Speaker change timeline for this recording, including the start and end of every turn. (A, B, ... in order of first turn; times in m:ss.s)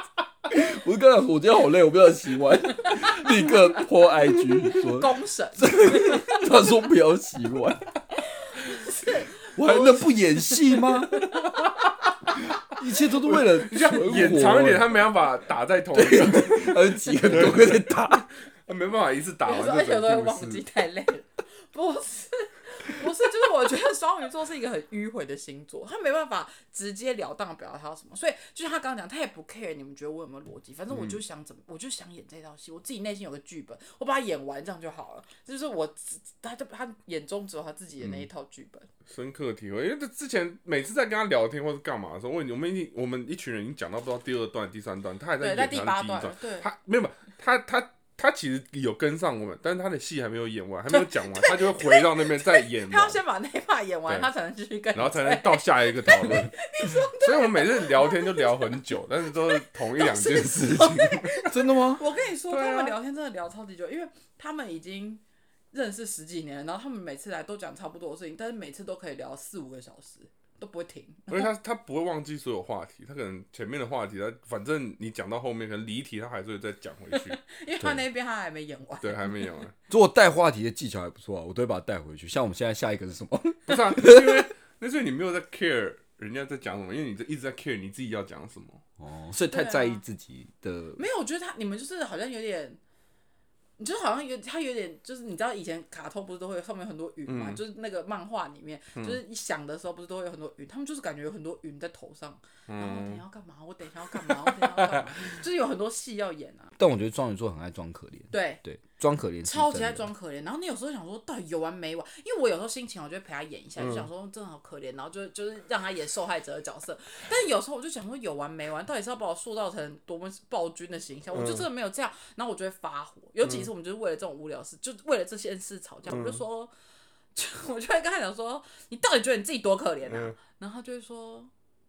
0:00.5-0:07.9 A
0:04.7-0:06.3 B
0:08.8-0:11.7 B
0:09.6-0:11.3 A
0:12.7-0:15.0 A
0:13.2-0:20.6 C
0:15.9-0:18.3 A
0:19.4-0:38.9 B
0:30.9-0:31.2 C
0:38.0-0:38.3 C
0:39.1-0:53.2 C
0:45.4-0:46.7 B
0:50.9-1:11.5 B
0:54.9-1:01.4 C
1:01.4-1:02.0 A
1:02.5-1:03.0 C
1:11.3-1:17.4 C
1:17.4-1:19.4 B
1:19.0-1:19.7 C
1:19.9-1:24.5 A
1:23.7-1:28.8 C
1:29.0-1:31.0 A
1:29.5-1:30.0 B
1:31.0-1:32.8 B
1:33.8-1:46.7 B
1:37.3-1:37.6 C
1:42.7-1:43.2 C
1:44.1-1:45.3 C
1:46.8-1:50.1 A
1:48.3-1:48.6 B
1:49.4-2:06.7 B
1:53.8-1:54.1 C
2:01.3-2:01.7 C
2:03.4-2:03.7 C
2:06.1-2:06.4 C
2:07.4-2:11.5 B
2:10.1-2:10.4 C